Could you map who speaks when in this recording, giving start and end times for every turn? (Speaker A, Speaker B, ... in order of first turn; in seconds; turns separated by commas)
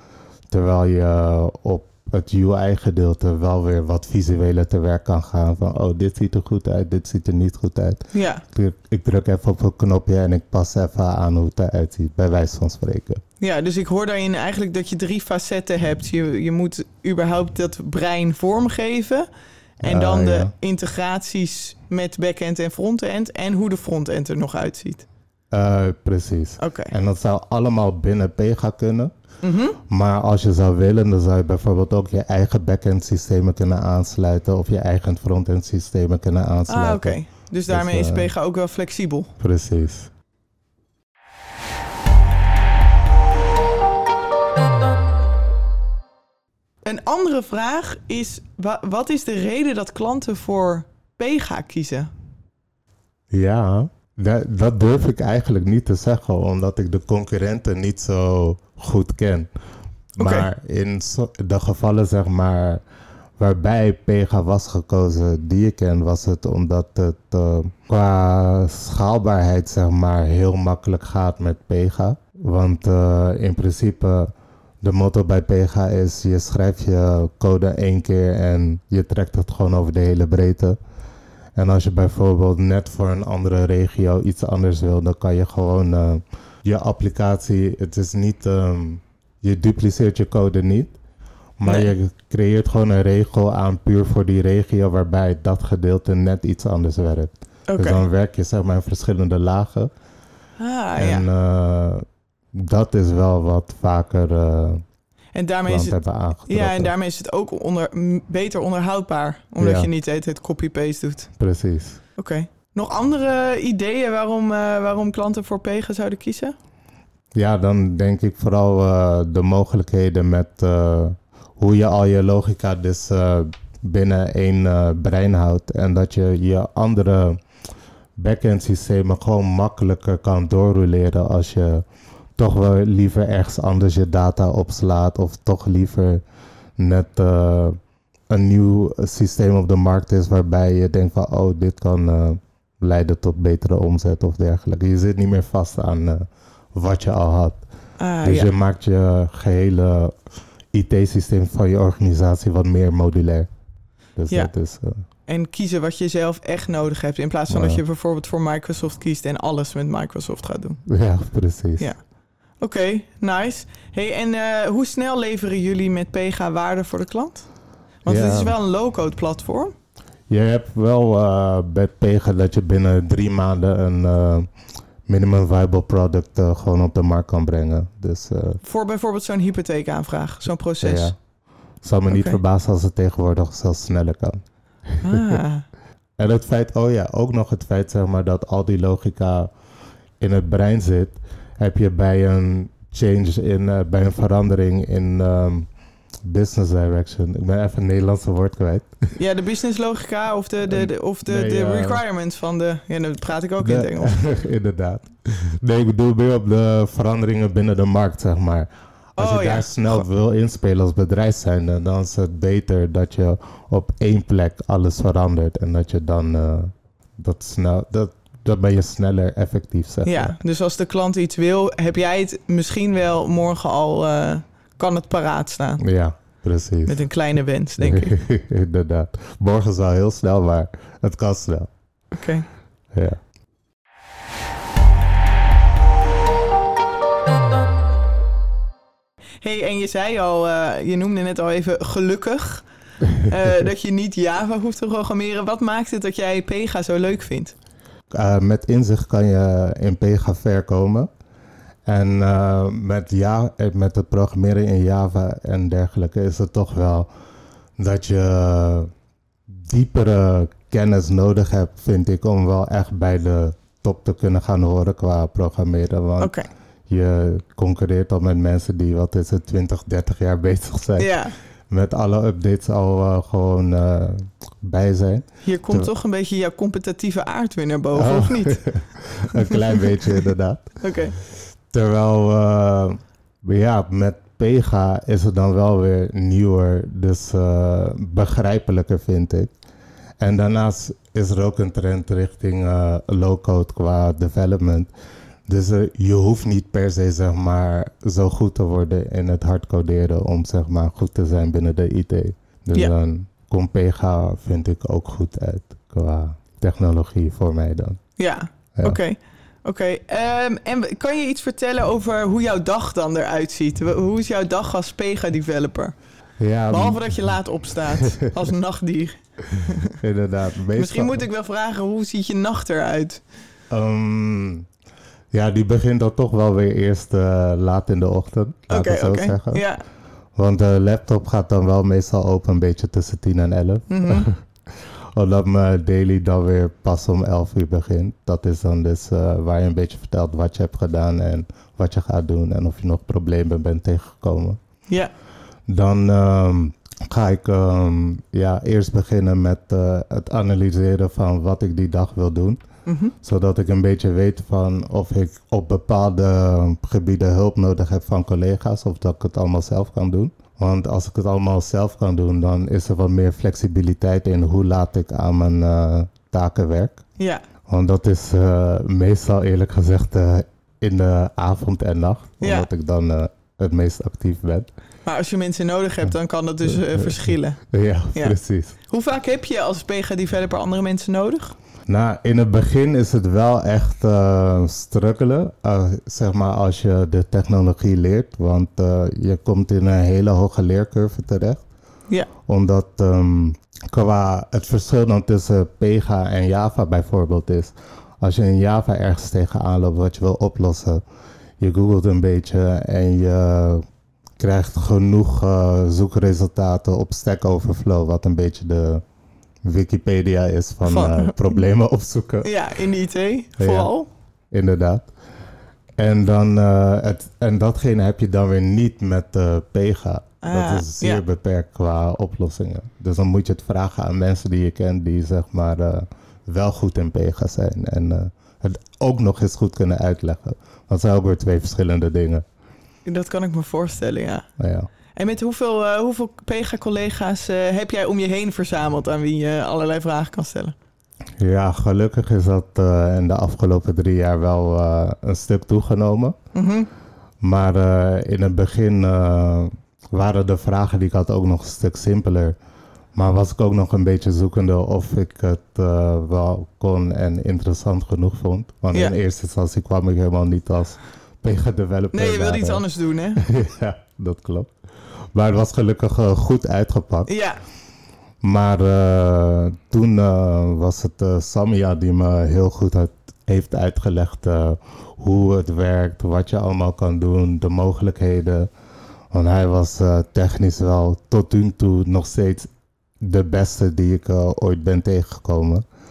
Speaker A: 0.5-13.2, Speaker B: 8.1-8.4, Speaker B: 13.4-19.3, Speaker A: 19.8-20.5, Speaker B: 19.8-25.1, Speaker A: 25.5-29.1, Speaker B: 26.6-26.9, Speaker B: 29.4-29.8, Speaker A: 29.9-38.3, Speaker B: 36.7-39.3, Speaker A: 39.4-40.1, Speaker B: 46.8-52.1, Speaker A: 53.3-59.5, Speaker A: 60.2-62.8, Speaker B: 60.2-60.5, Speaker A: 63.4-74.3, Speaker A: 74.8-80.8, Speaker A: 81.6-91.0, Speaker A: 91.6-99.9, Speaker B: 91.6-91.9, Speaker B: 97.7-98.0, Speaker B: 100.6-101.3, Speaker A: 101.0-104.8, Speaker B: 105.3-111.3, Speaker A: 105.7-106.9, Speaker A: 109.6-109.9, Speaker A: 111.4-112.0, Speaker B: 112.2-116.5, Speaker A: 117.3-127.4, Speaker A: 128.2-131.8, Speaker A: 132.4-136.2, Speaker A: 136.8-137.8, Speaker A: 138.3-147.6, Speaker B: 148.0-148.5, Speaker A: 148.2-150.1, Speaker A: 150.7-153.5, Speaker A: 154.2-155.0, Speaker B: 155.3-160.8, Speaker A: 157.5-157.8, Speaker A: 160.9-161.9, Speaker B: 162.6-167.5, Speaker B: 168.0-169.7, Speaker A: 168.1-168.6, Speaker A: 170.3-174.5, Speaker A: 175.1-178.6, Speaker B: 178.6-181.1, Speaker A: 180.8-181.2, Speaker A: 181.8-184.4, Speaker B: 182.1-182.4, Speaker A: 184.9-185.4, Speaker B: 185.0-185.7, Speaker A: 186.2-189.5, Speaker A: 190.2-195.7, Speaker A: 196.2-199.0, Speaker B: 199.2-204.4, Speaker A: 200.7-202.0, Speaker A: 203.6-220.3, Speaker B: 209.2-210.0, Speaker B: 220.1-225.8, Speaker A: 225.8-227.0, Speaker B: 226.9-228.2, Speaker A: 227.8-231.7, Speaker B: 232.1-232.5, Speaker A: 232.9-233.2, Speaker B: 239.4-242.7, Speaker B: 243.2-247.6, Speaker A: 248.1-251.1, Speaker A: 251.9-257.1, Speaker A: 257.8-258.9, Speaker A: 259.5-266.4, Speaker B: 266.2-266.5, Speaker A: 266.9-271.1, Speaker B: 271.0-271.4, Speaker A: 271.7-275.9, Speaker B: 275.4-279.9, Speaker A: 277.9-289.5, Speaker B: 280.8-281.1, Speaker A: 290.2-294.9, Speaker A: 295.5-308.0, Speaker B: 308.2-315.9, Speaker A: 316.4-318.3, Speaker B: 316.7-320.0, Speaker A: 319.9-321.2, Speaker B: 320.8-323.2, Speaker A: 323.7-324.7, Speaker A: 325.3-329.6, Speaker B: 328.7-329.8, Speaker A: 330.4-344.6, Speaker B: 333.9-334.3, Speaker A: 345.7-352.6, Speaker B: 352.9-353.1, Speaker A: 353.2-367.1, Speaker B: 367.2-367.4, Speaker A: 367.7-374.7, Speaker B: 372.4-372.7, Speaker B: 375.1-377.6, Speaker A: 376.7-378.8, Speaker B: 378.9-381.6, Speaker A: 381.9-391.6, Speaker A: 392.4-401.0, Speaker A: 401.6-403.9, Speaker A: 404.4-409.0, Speaker A: 409.6-412.5, Speaker B: 410.9-411.6, Speaker B: 412.4-414.1, Speaker A: 413.6-413.9, Speaker A: 414.5-415.1, Speaker A: 416.0-432.4, Speaker B: 420.4-421.2, Speaker B: 433.1-434.5, Speaker A: 434.6-434.9, Speaker B: 435.1-440.7, Speaker A: 441.4-446.4, Speaker B: 446.5-446.9, Speaker A: 447.4-452.6, Speaker A: 453.1-462.8, Speaker B: 462.1-463.4, Speaker A: 463.4-464.7, Speaker A: 465.3-467.3, Speaker B: 467.3-467.6, Speaker A: 468.4-478.7, Speaker A: 479.3-482.7, Speaker A: 483.2-485.8